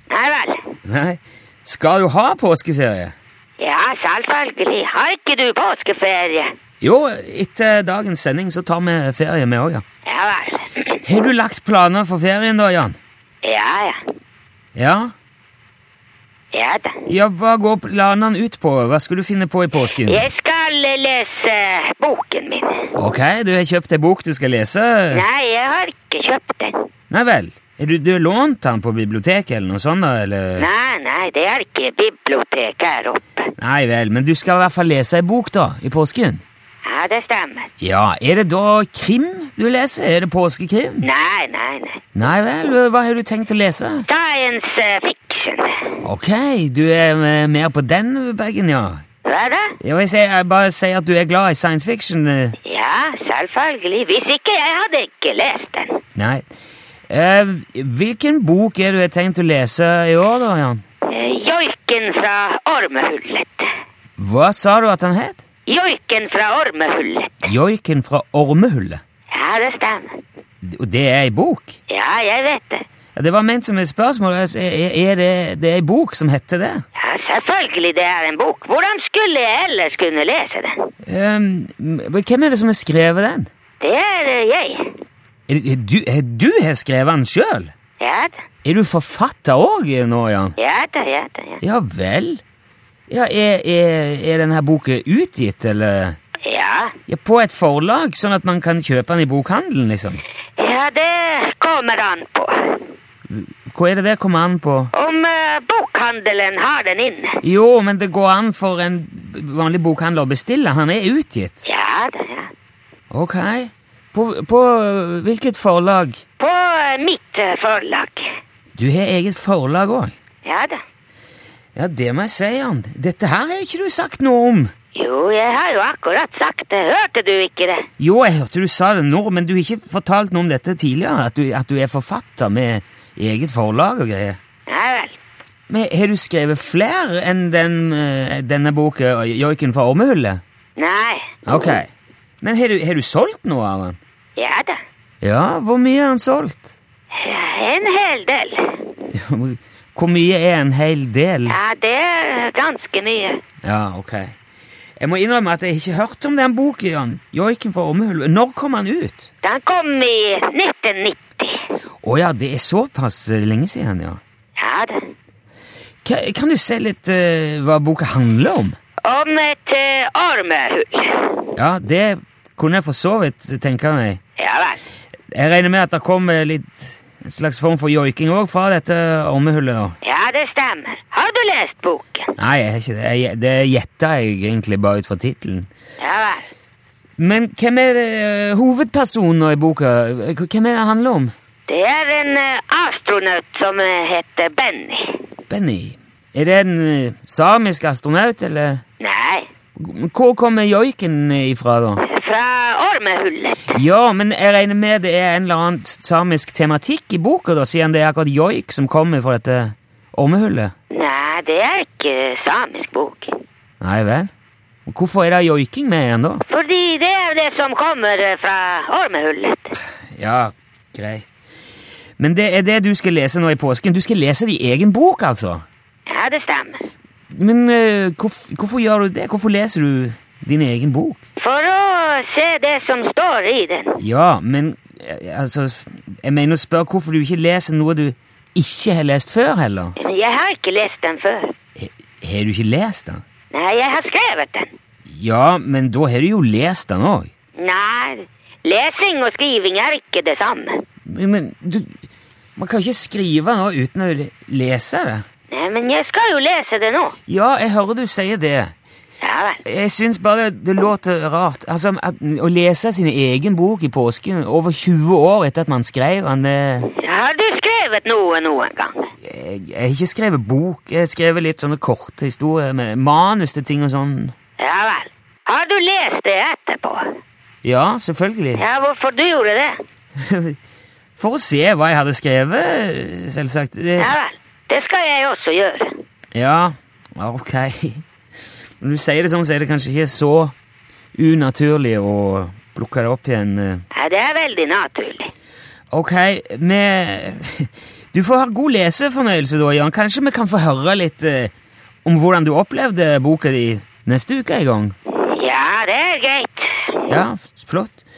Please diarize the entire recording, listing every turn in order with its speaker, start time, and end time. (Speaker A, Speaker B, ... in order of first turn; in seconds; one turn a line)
Speaker A: 0.1-0.7
Speaker B: 0.8-3.1
Speaker A: 3.6-6.5
Speaker B: 6.8-9.8
Speaker A: 10.1-11.0
Speaker B: 11.0-13.0
Speaker A: 13.4-14.0
Speaker B: 14.8-15.1
Speaker A: 16.5-17.0
Speaker B: 17.1-20.3
Speaker A: 19.8-22.9
Speaker B: 22.9-25.2
Speaker A: 25.1-26.9
Speaker B: 27.1-30.7
Speaker A: 30.6-33.5
Speaker B: 33.6-36.4
Speaker A: 36.8-37.7
Speaker B: 37.8-41.1
Speaker A: 41.0-42.0
Speaker B: 42.1-44.1
Speaker A: 44.1-45.9
Speaker B: 46.0-49.0
Speaker A: 49.2-49.8
Speaker B: 49.8-52.6
Speaker A: 52.6-56.0
Speaker B: 56.2-56.5
Speaker B: 57.1-60.8
Speaker A: 61.1-63.7
Speaker B: 64.2-65.4
Speaker A: 65.7-67.5
Speaker B: 67.5-69.0
Speaker A: 69.3-70.2
Speaker B: 70.6-71.8
Speaker A: 71.9-72.8
Speaker B: 73.2-76.8
Speaker A: 77.0-80.9
Speaker B: 81.0-83.5
Speaker A: 83.8-84.9
Speaker B: 85.5-87.7
Speaker A: 88.0-88.3
Speaker B: 88.7-90.6
Speaker A: 90.6-91.6
Speaker B: 91.6-92.4
Speaker B: 93.1-96.2
Speaker A: 96.4-97.0
Speaker B: 97.1-100.2
Speaker A: 100.6-102.9
Speaker B: 103.3-104.9
Speaker A: 104.9-107.4
Speaker B: 107.4-111.6
Speaker A: 111.7-112.5
Speaker B: 113.1-116.2
Speaker A: 116.4-118.3
Speaker B: 118.8-120.2
Speaker A: 120.4-120.8
Speaker B: 121.8-124.7
Speaker A: 125.0-127.9
Speaker B: 128.0-134.4
Speaker A: 134.7-135.2
Speaker B: 135.7-140.4
Speaker A: 140.8-141.3
Speaker B: 141.5-141.9
Speaker B: 142.4-144.0
Speaker A: 144.4-144.8
Speaker B: 145.2-146.7
Speaker A: 147.1-148.9
Speaker B: 149.1-151.6
Speaker A: 151.5-153.4
Speaker B: 153.6-154.3
Speaker B: 155.0-159.3
Speaker A: 159.4-161.7
Speaker B: 162.0-164.2
Speaker A: 164.6-165.1
Speaker B: 166.1-168.8
Speaker A: 169.1-171.5
Speaker B: 171.6-174.2
Speaker A: 174.4-174.8
Speaker B: 175.3-180.0
Speaker A: 180.0-182.3
Speaker B: 182.4-185.7
Speaker A: 186.0-186.5
Speaker B: 187.2-191.3
Speaker A: 191.7-195.2
Speaker B: 195.5-198.8
Speaker A: 199.0-199.5
Speaker B: 199.8-202.0
Speaker A: 202.0-203.8
Speaker B: 203.7-210.7
Speaker A: 210.9-213.3
Speaker B: 213.8-214.3
Speaker B: 214.9-216.4
Speaker A: 216.5-219.8
Speaker B: 220.2-221.3
Speaker B: 222.2-225.6
Speaker A: 226.1-226.8
Speaker B: 227.3-231.2
Speaker A: 231.4-234.0
Speaker B: 234.0-240.0
Speaker A: 240.0-241.5
Speaker B: 241.8-243.2
Speaker A: 243.5-244.7
Speaker B: 245.1-247.3
Speaker A: 247.6-250.8
Speaker B: 251.1-252.0
Speaker B: 252.6-255.2
Speaker A: 255.5-257.2
Speaker B: 257.3-258.7
Speaker A: 259.2-259.6
Speaker B: 259.6-266.9
Speaker A: 266.9-269.1
Speaker B: 269.2-274.3
Speaker A: 274.6-277.1
Speaker B: 277.6-278.6
Speaker A: 278.6-279.8
Speaker B: 280.2-280.6
Speaker B: 281.2-284.1
Speaker A: 284.0-286.0
Speaker B: 286.3-288.0
Speaker B: 288.8-290.5
Speaker B: 291.1-293.8
Speaker A: 293.9-295.3
Speaker B: 295.9-301.5
Speaker B: 302.1-304.9
Speaker A: 305.1-307.1
Speaker B: 307.1-308.0